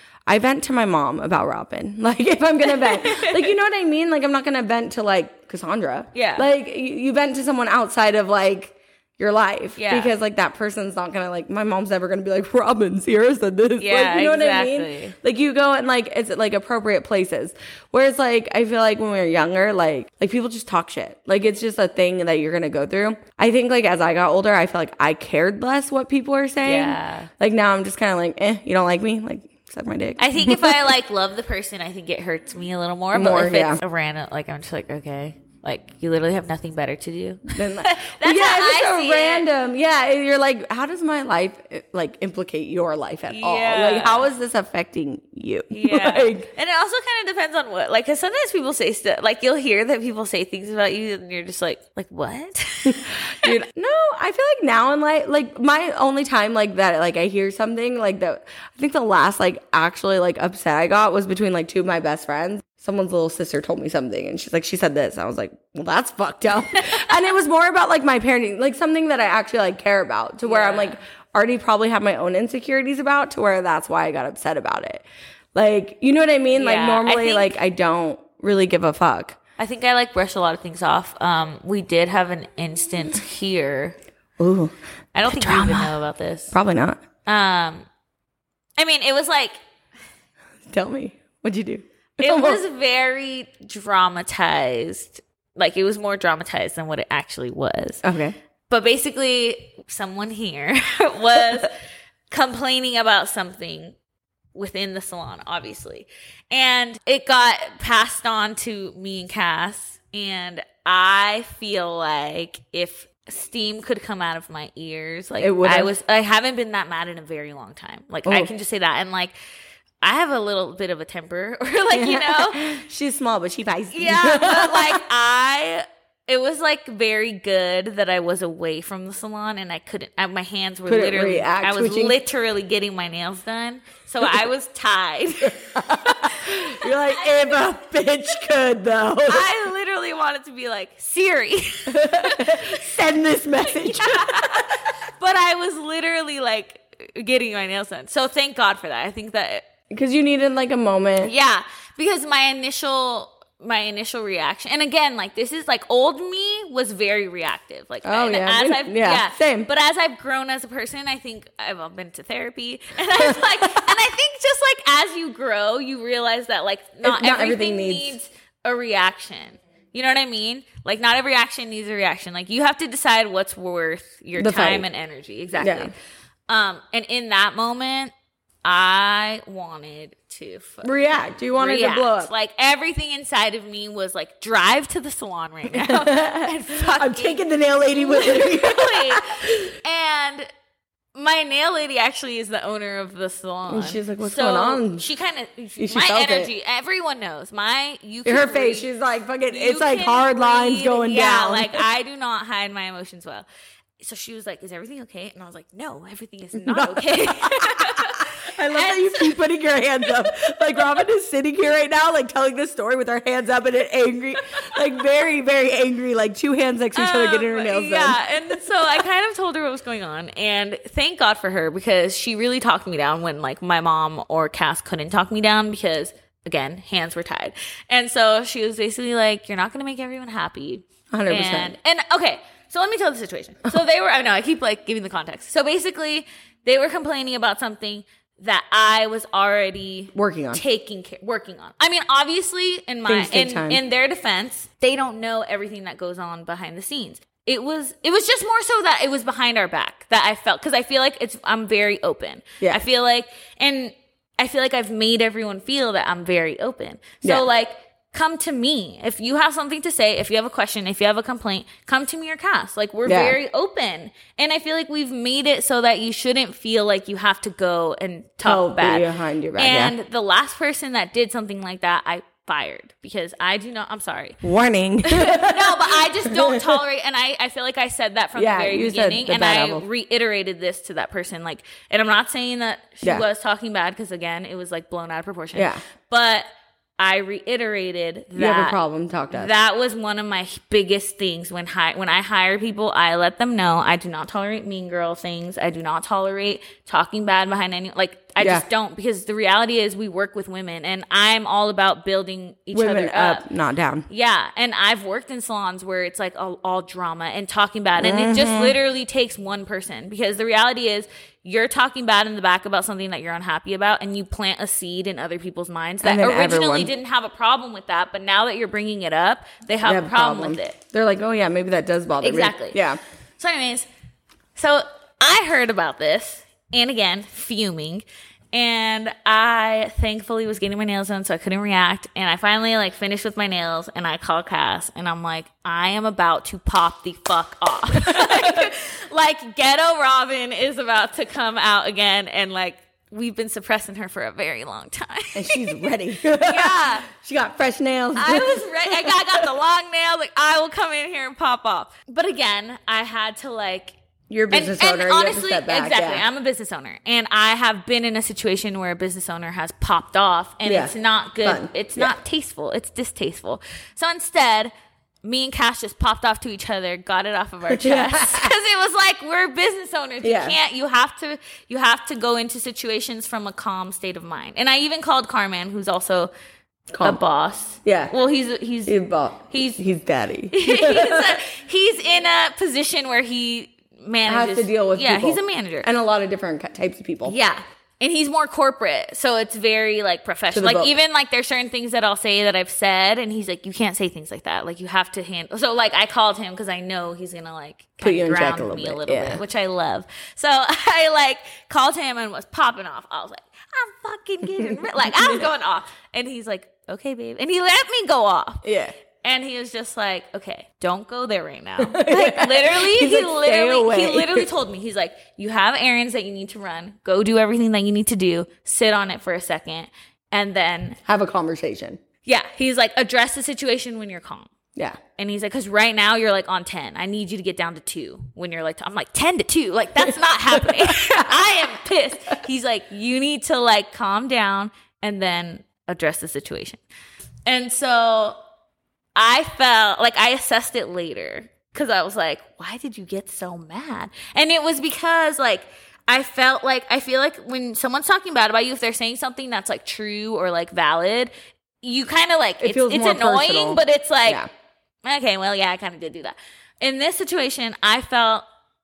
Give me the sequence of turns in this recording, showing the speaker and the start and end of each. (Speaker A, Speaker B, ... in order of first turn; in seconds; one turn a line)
Speaker A: 0.3-30.8
Speaker B: 2.6-3.5
Speaker B: 6.1-6.5
Speaker B: 9.8-10.1
Speaker B: 13.8-15.1
Speaker B: 26.6-27.3
Speaker B: 30.2-39.5
Speaker A: 33.1-33.8
Speaker A: 37.5-46.5
Speaker B: 43.3-44.3
Speaker B: 45.7-53.5
Speaker A: 52.9-75.0
Speaker B: 66.7-67.1
Speaker B: 70.4-71.0
Speaker A: 75.5-79.4
Speaker B: 76.5-77.6
Speaker B: 79.6-84.0
Speaker A: 84.4-84.7
Speaker B: 85.1-86.5
Speaker A: 85.2-86.0
Speaker A: 86.5-87.0
Speaker B: 87.2-87.9
Speaker B: 88.8-89.6
Speaker A: 90.7-92.6
Speaker B: 92.2-98.0
Speaker A: 98.0-98.3
Speaker B: 98.7-101.7
Speaker B: 102.3-103.9
Speaker B: 104.5-119.3
Speaker A: 115.4-115.9
Speaker B: 120.0-122.8
Speaker A: 121.9-125.0
Speaker B: 123.9-137.6
Speaker A: 130.9-132.2
Speaker A: 135.5-139.5
Speaker B: 139.2-142.8
Speaker A: 141.9-144.8
Speaker B: 143.6-149.6
Speaker A: 149.9-151.3
Speaker B: 151.2-175.9
Speaker A: 158.0-159.7
Speaker A: 163.1-163.9
Speaker A: 167.0-168.1
Speaker A: 174.4-174.8
Speaker A: 175.6-175.9
Speaker B: 176.5-178.1
Speaker B: 178.6-180.9
Speaker A: 180.8-182.3
Speaker B: 181.5-190.5
Speaker A: 185.7-189.7
Speaker B: 191.1-198.9
Speaker A: 193.7-195.0
Speaker A: 195.8-196.5
Speaker A: 198.2-201.8
Speaker B: 199.5-203.4
Speaker B: 204.0-209.4
Speaker A: 206.5-218.6
Speaker B: 210.3-210.8
Speaker B: 216.9-274.4
Speaker A: 231.1-231.7
Speaker A: 240.1-240.6
Speaker A: 243.1-243.8
Speaker A: 263.1-263.4
Speaker A: 268.4-269.9
Speaker A: 274.4-276.8
Speaker B: 275.0-286.5
Speaker A: 278.3-279.8
Speaker A: 285.5-285.8
Speaker B: 287.0-288.8
Speaker A: 288.3-289.5
Speaker B: 289.3-303.4
Speaker A: 302.7-304.1
Speaker B: 304.1-320.8
Speaker A: 308.0-308.8
Speaker A: 316.0-316.9
Speaker A: 319.8-323.0
Speaker B: 322.2-322.8
Speaker B: 323.4-323.9
Speaker B: 324.6-347.1
Speaker A: 338.0-338.7
Speaker A: 345.3-349.5
Speaker B: 348.1-353.9
Speaker A: 354.3-356.2
Speaker B: 354.5-364.7
Speaker A: 360.6-360.9
Speaker A: 361.4-362.1
Speaker B: 365.2-376.3
Speaker A: 367.7-368.5
Speaker A: 370.2-370.6
Speaker A: 376.9-377.2
Speaker B: 377.0-378.9
Speaker A: 377.8-378.1
Speaker A: 378.9-381.4
Speaker B: 379.5-379.8
Speaker B: 380.5-385.9
Speaker A: 384.3-387.3
Speaker B: 387.2-408.6
Speaker A: 390.5-390.9
Speaker A: 398.0-399.4
Speaker A: 404.6-405.5
Speaker A: 408.6-408.9
Speaker B: 409.2-421.0
Speaker A: 411.8-414.5
Speaker A: 421.1-422.0
Speaker B: 422.2-424.5
Speaker B: 425.1-436.8
Speaker A: 430.0-431.3
Speaker B: 437.5-438.4
Speaker B: 439.1-454.4
Speaker A: 452.6-454.5
Speaker B: 455.0-458.4